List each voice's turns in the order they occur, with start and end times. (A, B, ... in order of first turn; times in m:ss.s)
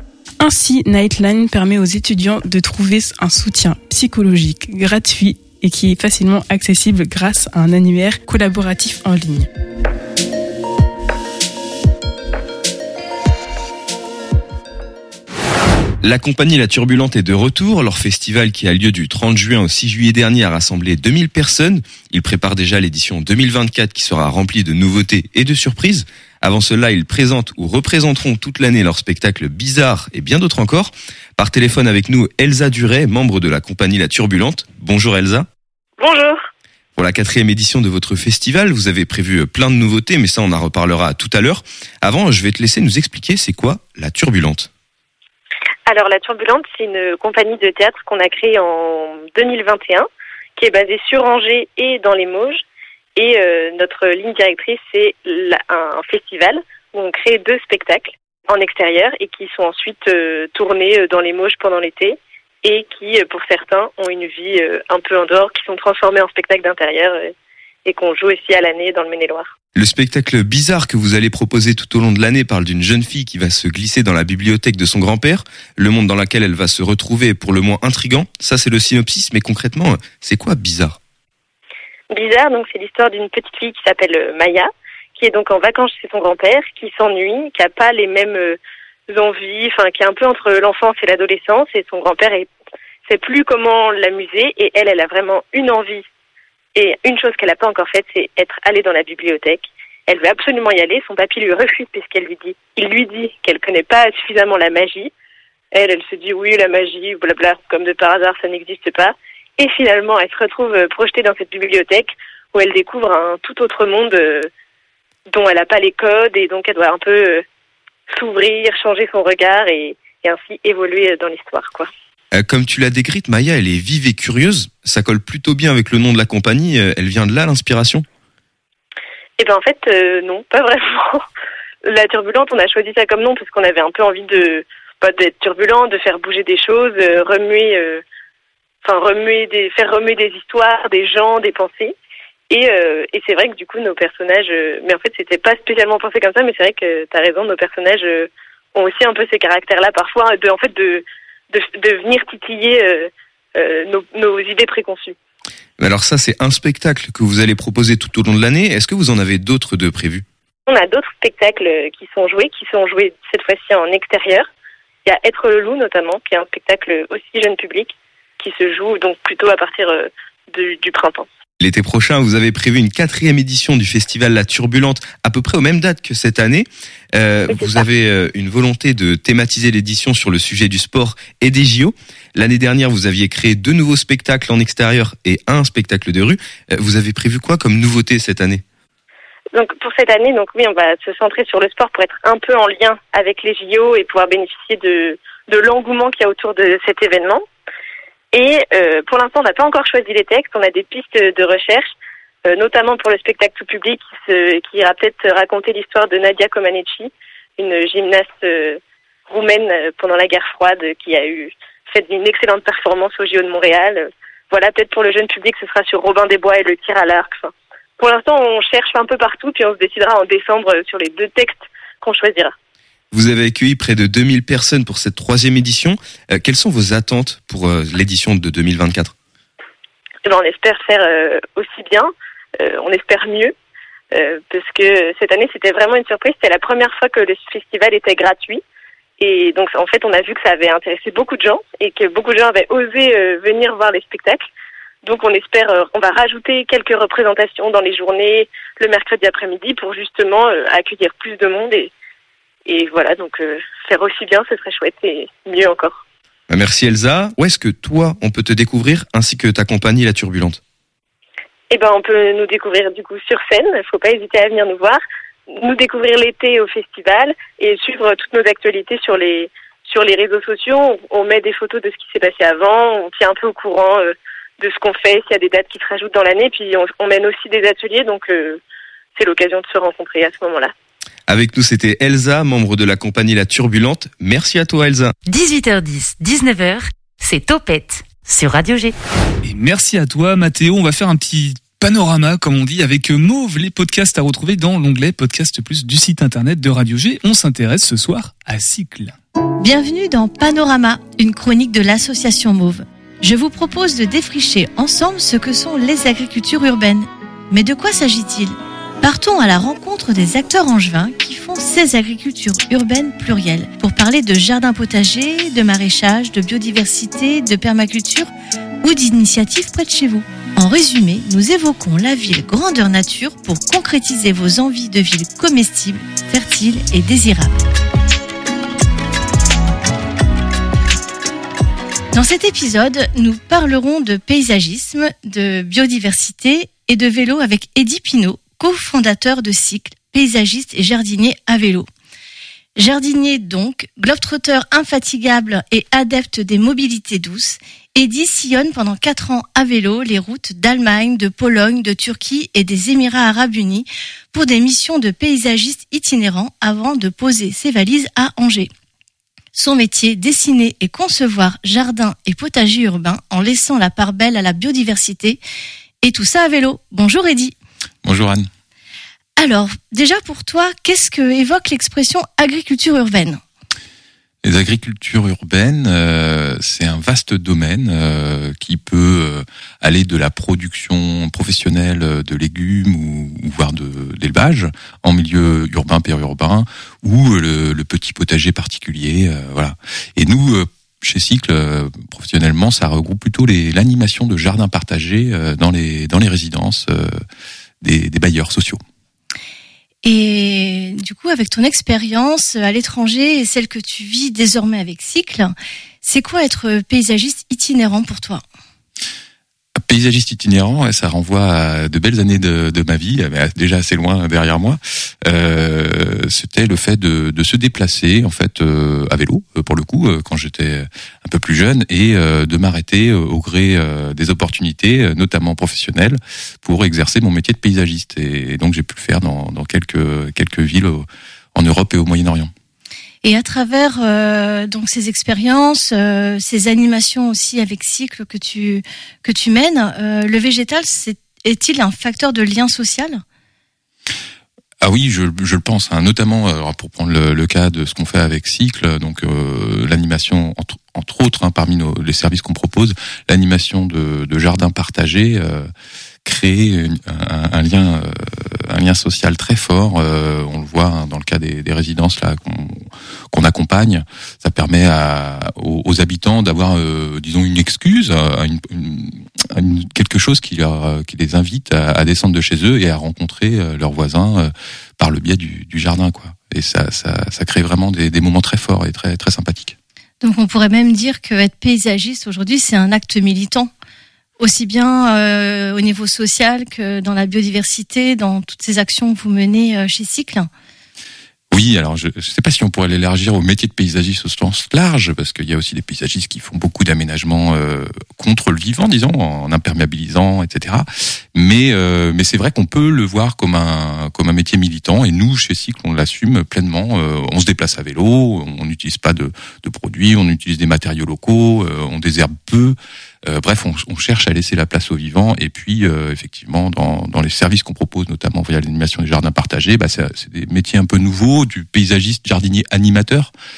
0:00.4-0:09.5 A
0:16.0-0:35.5 B
0:36.0-0:36.4 C
0:37.0-0:44.7 B
0:45.9-0:52.6 C
0:53.2-1:07.3 C
1:07.8-1:09.5 C
1:09.7-1:21.0 B
1:22.1-1:32.5 C
1:33.0-1:36.0 C
1:36.7-1:45.1 C
1:45.7-1:54.5 C
1:55.3-1:57.4 C
1:58.1-2:01.9 C
2:02.3-2:08.0 B
2:09.4-2:11.2 C
2:11.8-2:18.0 C
2:18.8-2:21.9 C
2:22.5-2:35.2 C
2:35.8-2:40.2 B
2:40.7-2:44.5 C
2:45.0-2:51.3 C
2:51.6-3:08.6 B
2:57.5-2:57.8 C
3:09.5-3:17.4 C
3:18.3-3:21.9 C
3:22.4-3:42.5 C
3:43.1-3:49.1 B
3:50.2-3:53.5 C
3:54.1-3:58.6 C
3:59.2-4:04.4 C
4:05.0-4:11.9 C
4:12.6-4:16.0 C
4:16.5-4:20.6 B
4:21.7-4:38.6 C
4:39.2-4:40.7 C
4:41.3-4:45.1 B
4:45.3-4:48.9 D
4:49.4-4:59.1 E
4:59.6-5:18.3 F
5:18.8-5:27.6 F
5:32.1-5:41.9 F
5:42.8-5:58.7 F
5:59.5-6:05.4 F
6:06.0-6:07.5 F
6:08.0-6:08.5 G
6:09.4-6:13.4 F
6:14.4-6:37.2 G
6:37.8-6:38.8 G
6:40.0-6:48.4 F
6:49.8-7:12.5 G
7:13.2-7:23.2 F
7:24.8-7:35.7 G
7:36.2-7:59.8 G
8:00.2-8:03.7 F
8:04.4-8:10.5 F
8:11.5-8:43.3 G